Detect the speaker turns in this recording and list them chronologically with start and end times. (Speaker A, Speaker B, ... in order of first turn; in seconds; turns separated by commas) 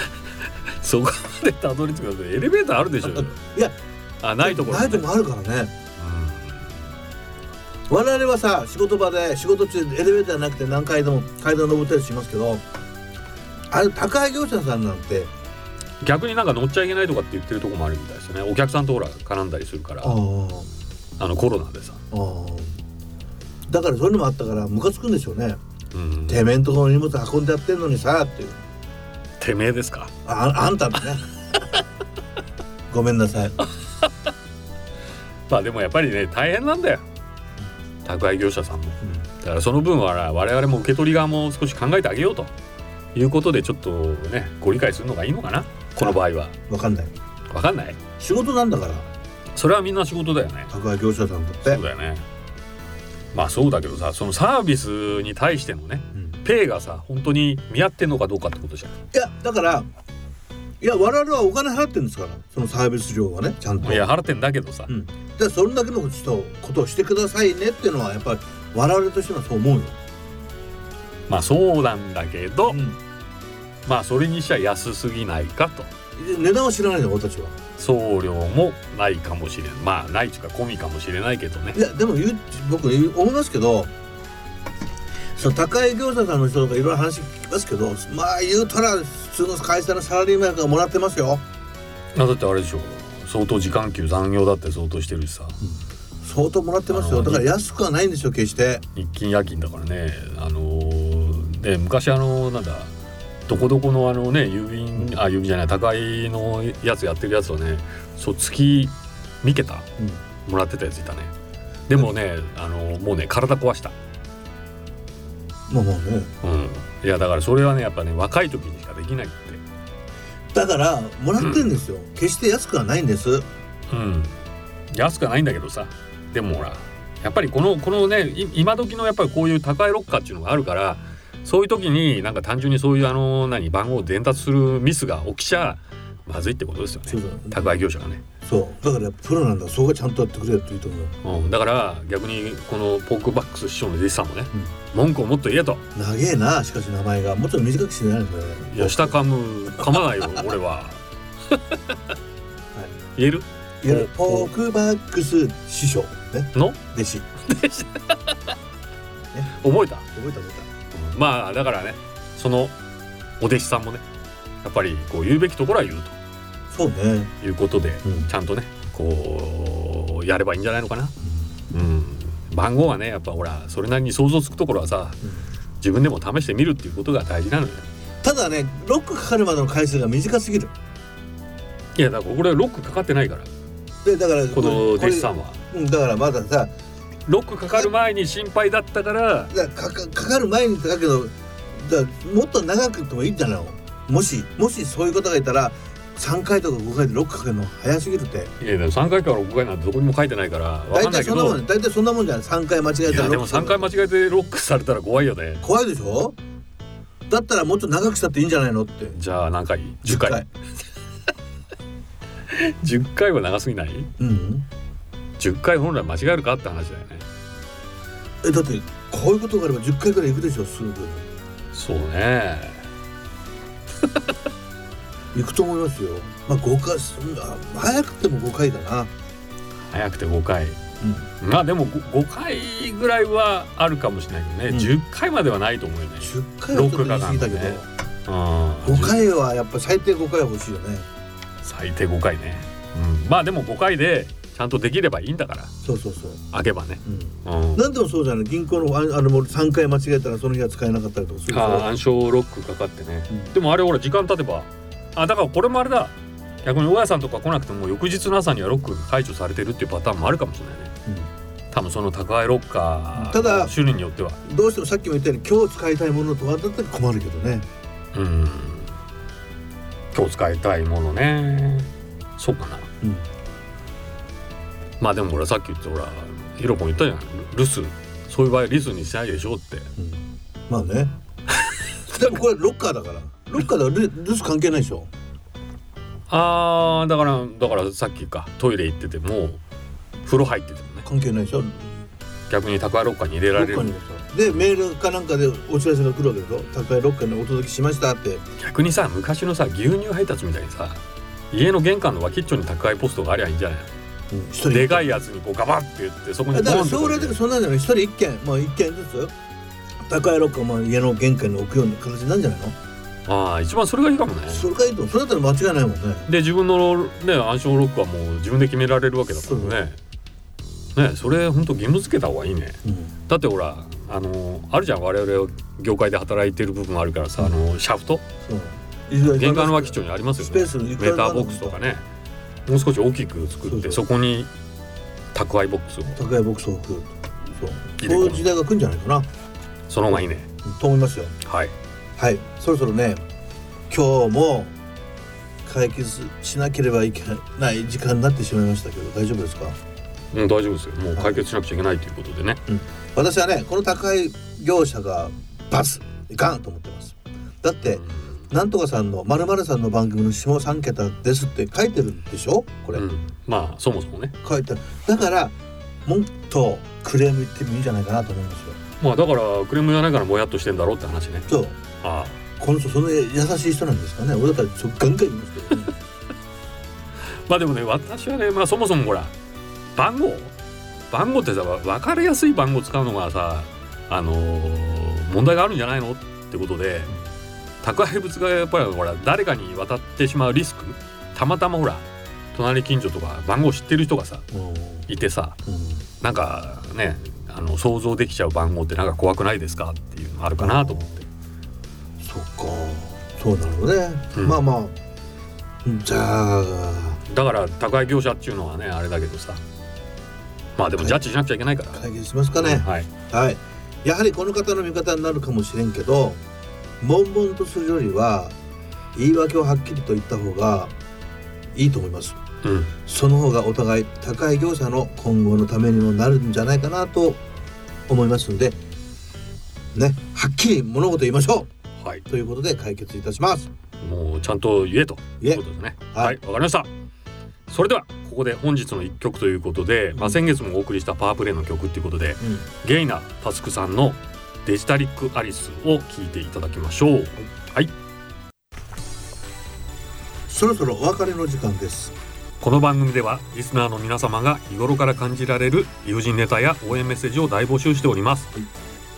Speaker A: 0.7-3.4, Speaker B: 3.0-3.8, Speaker A: 4.2-5.1, Speaker B: 4.4-5.7, Speaker A: 6.0-6.7, Speaker B: 7.9-12.6, Speaker B: 13.7-15.3, Speaker A: 16.0-20.2, Speaker B: 20.0-20.7, Speaker A: 21.2-22.0, Speaker B: 22.1-22.8, Speaker B: 23.7-25.6, Speaker A: 25.9-26.4, Speaker B: 26.3-28.6, Speaker A: 29.4-30.1, Speaker B: 30.2-31.3, Speaker B: 32.9-33.6, Speaker A: 35.5-37.0, Speaker A: 38.0-42.5, Speaker A: 43.1-46.6, Speaker B: 46.0-47.1, Speaker A: 47.5-48.0, Speaker B: 48.2-49.1, Speaker A: 49.6-50.7, Speaker B: 50.7-51.8, Speaker A: 51.7-52.2, Speaker A: 53.3-59.0, Speaker B: 59.1-59.9, Speaker B: 60.8-64.1, Speaker A: 63.8-64.9, Speaker B: 64.9-70.0, Speaker A: 71.3-72.8, Speaker B: 72.7-73.0, Speaker A: 73.9-75.9, Speaker B: 76.2-77.6, Speaker A: 77.8-81.8, Speaker B: 81.8-83.9, Speaker B: 85.4-91.4, Speaker A: 92.1-95.6, Speaker B: 95.6-98.8, Speaker A: 96.9-97.5, Speaker A: 99.0-102.9, Speaker A: 103.5-109.9, Speaker A: 110.5-111.3, Speaker A: 111.9-114.0, Speaker B: 115.7-116.3, Speaker A: 116.4-119.6, Speaker B: 120.5-123.5, Speaker A: 121.4-121.7, Speaker A: 123.9-124.4, Speaker A: 124.9-138.2, Speaker B: 137.1-137.8, Speaker B: 138.4-141.2, Speaker A: 141.2-145.8, Speaker B: 145.9-149.2, Speaker A: 148.7-152.0, Speaker B: 149.8-150.5, Speaker A: 153.2-154.5, Speaker B: 153.8-157.3, Speaker A: 157.4-158.5, Speaker A: 159.5-160.1, Speaker B: 160.1-160.7, Speaker A: 160.9-162.8, Speaker A: 163.4-164.0, Speaker A: 164.6-166.2, Speaker B: 166.7-167.3, Speaker A: 167.4-171.2, Speaker A: 171.7-175.2, Speaker A: 175.8-177.9, Speaker B: 178.2-180.7, Speaker A: 182.0-183.5, Speaker B: 184.0-186.7, Speaker A: 184.5-185.6, Speaker A: 187.3-189.5, Speaker B: 189.5-198.5, Speaker A: 198.6-201.6, Speaker B: 200.9-203.9, Speaker A: 203.1-205.6, Speaker B: 205.6-206.4, Speaker B: 207.3-209.2, Speaker A: 209.1-210.4, Speaker B: 210.1-210.5, Speaker A: 212.5-214.1, Speaker B: 214.2-214.7, Speaker A: 215.4-217.3, Speaker B: 218.4-221.3, Speaker A: 221.7-222.8, Speaker B: 225.3-229.1, Speaker A: 229.9-230.8, Speaker B: 231.0-231.3, Speaker A: 231.4-239.2, Speaker B: 236.2-237.9, Speaker B: 238.8-241.1, Speaker A: 241.6-245.7, Speaker B: 245.8-246.4, Speaker A: 246.5-247.8, Speaker B: 247.1-251.9, Speaker A: 251.5-260.9, Speaker A: 261.7-264.4, Speaker B: 263.1-263.7, Speaker B: 264.4-267.7, Speaker A: 268.1-268.9, Speaker A: 270.1-272.9, Speaker B: 273.0-273.3, Speaker A: 275.0-279.9, Speaker B: 280.0-281.1, Speaker B: 282.1-285.1, Speaker A: 286.3-289.6, Speaker A: 290.2-291.1, Speaker B: 291.1-291.9, Speaker A: 292.5-293.9, Speaker B: 293.6-298.4, Speaker A: 298.6-301.0, Speaker A: 301.5-303.9, Speaker B: 304.3-305.1, Speaker A: 304.7-307.4, Speaker B: 306.5-309.3, Speaker B: 310.1-312.8, Speaker A: 313.3-314.7, Speaker B: 314.5-316.3, Speaker A: 316.3-320.0, Speaker B: 319.4-319.8, Speaker A: 321.0-328.2, Speaker B: 322.8-323.1, Speaker B: 328.4-331.8, Speaker A: 329.3-332.1, Speaker A: 332.7-334.5, Speaker B: 333.7-334.0, Speaker A: 335.3-336.2, Speaker B: 336.1-339.3, Speaker A: 338.0-338.5, Speaker A: 339.9-340.5, Speaker B: 340.1-341.4, Speaker A: 341.4-341.7, Speaker B: 342.2-343.2, Speaker B: 343.9-344.8, Speaker B: 345.6-349.8, Speaker A: 350.3-352.6, Speaker B: 351.2-351.4, Speaker B: 352.7-363.1, Speaker A: 357.9-358.3, Speaker A: 362.9-364.4, Speaker B: 364.4-365.5, Speaker B: 366.1-368.8, Speaker A: 369.0-371.5, Speaker B: 371.5-371.8, Speaker A: 372.0-372.4, Speaker B: 372.6-375.9, Speaker A: 377.5-379.3, Speaker A: 380.0-380.5, Speaker A: 381.1-387.2, Speaker A: 387.8-394.5, Speaker B: 394.5-395.1, Speaker A: 395.1-395.6, Speaker B: 395.6-396.0, Speaker A: 396.2-401.3, Speaker B: 400.6-401.2, Speaker B: 402.2-405.0, Speaker A: 404.3-404.6, Speaker B: 405.9-407.2, Speaker A: 407.3-409.6, Speaker A: 410.8-412.1, Speaker B: 411.9-416.4, Speaker A: 412.6-413.1, Speaker B: 417.0-418.6, Speaker B: 419.1-420.9, Speaker B: 421.7-422.4, Speaker A: 422.6-422.9, Speaker B: 423.1-427.4, Speaker B: 428.1-428.8, Speaker B: 429.9-431.7, Speaker A: 432.0-432.2, Speaker B: 432.3-433.7, Speaker A: 434.0-436.9, Speaker A: 437.7-447.9, Speaker B: 440.1-440.4, Speaker B: 450.5-452.1, Speaker A: 452.6-458.5